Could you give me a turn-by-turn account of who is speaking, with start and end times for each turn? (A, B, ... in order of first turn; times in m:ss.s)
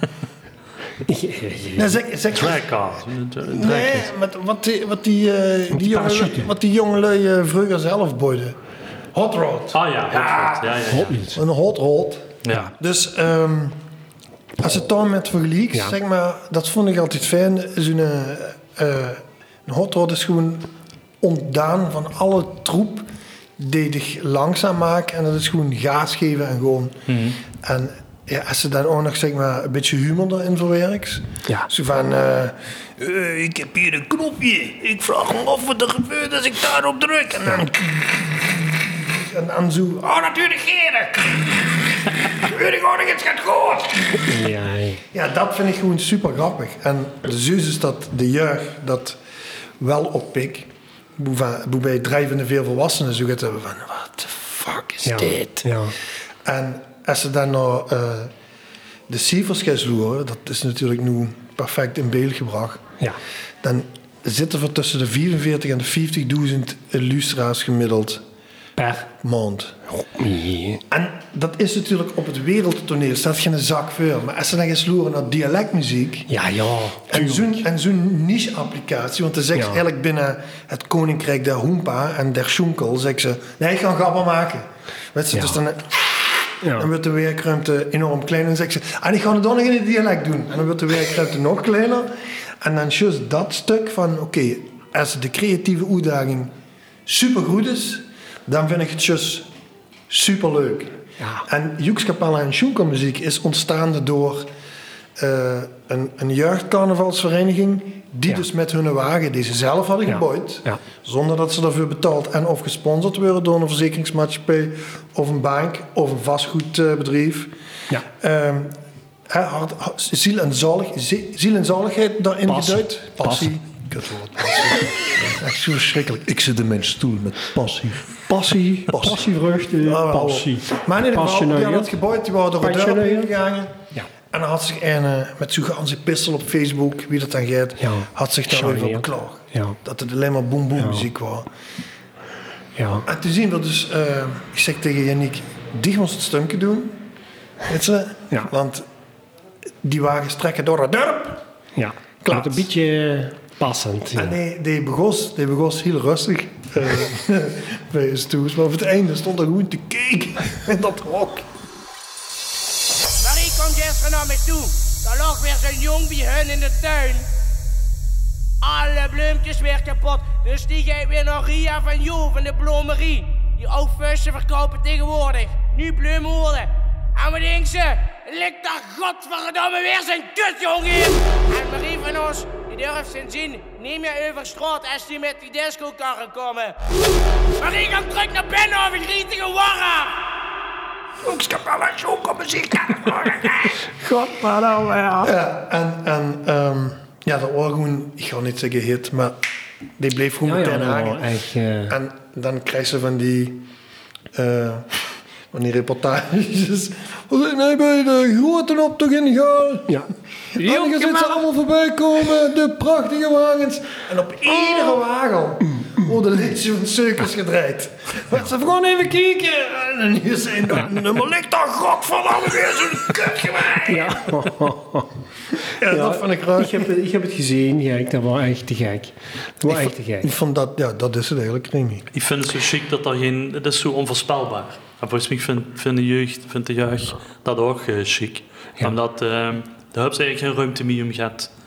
0:01.0-0:02.0 A
0:01.8-0:02.6 B
0:02.3-0:04.1 C
0:03.4-0:08.6 B
0:05.7-0:06.5 A
0:09.1-0:10.8 B
0:09.7-0:11.2 C
0:10.9-0:11.4 A
0:11.3-0:13.8 B
0:12.4-0:12.7 C
0:14.6-0:20.7 B
0:21.2-0:23.1 B
0:23.6-0:44.3 B
0:27.1-0:27.4 C
0:44.2-0:45.0 A
0:45.1-0:49.2 B
0:49.8-0:55.7 B
0:55.0-0:55.9 A
0:56.4-0:58.3 B
0:59.1-1:02.8 B
1:03.6-1:08.2 B
1:08.8-1:09.1 A
1:09.1-1:09.8 B
1:09.9-1:10.8 A
1:10.9-1:16.3 B
1:16.3-1:17.6 A
1:17.1-1:36.5 B
1:19.5-1:19.8 A
1:25.3-1:25.6 A
1:26.6-1:26.9 A
1:37.0-1:39.5 B
1:40.1-1:44.5 B
1:41.2-1:41.4 A
1:45.2-1:57.5 B
1:50.0-1:50.8 A
1:58.1-1:58.7 B
1:59.3-2:09.3 B
2:02.5-2:03.5 A
2:08.3-2:11.9 A
2:09.8-2:13.8 B
2:12.6-2:13.3 A
2:14.3-2:21.5 B
2:17.8-2:19.8 A
2:20.8-2:21.0 A
2:22.8-2:23.0 A
2:23.0-2:27.0 B
2:27.6-2:28.8 B
2:29.8-2:31.4 B
2:31.8-2:34.4 A
2:32.2-2:32.7 B
2:34.1-2:41.4 B
2:43.2-2:47.3 D
2:48.6-3:06.8 D
3:07.6-3:10.1 D
3:11.2-3:13.7 B
3:13.8-3:15.3 A
3:15.2-3:19.4 B
3:20.0-3:21.2 B
3:20.4-3:22.0 A
3:21.9-3:23.6 B
3:24.3-3:25.0 B
3:25.5-3:44.3 B
3:29.9-3:31.4 A
3:43.8-3:45.1 A
3:45.6-3:46.9 B
3:45.8-3:50.3 A
3:49.7-3:52.1 B
3:52.1-4:01.5 C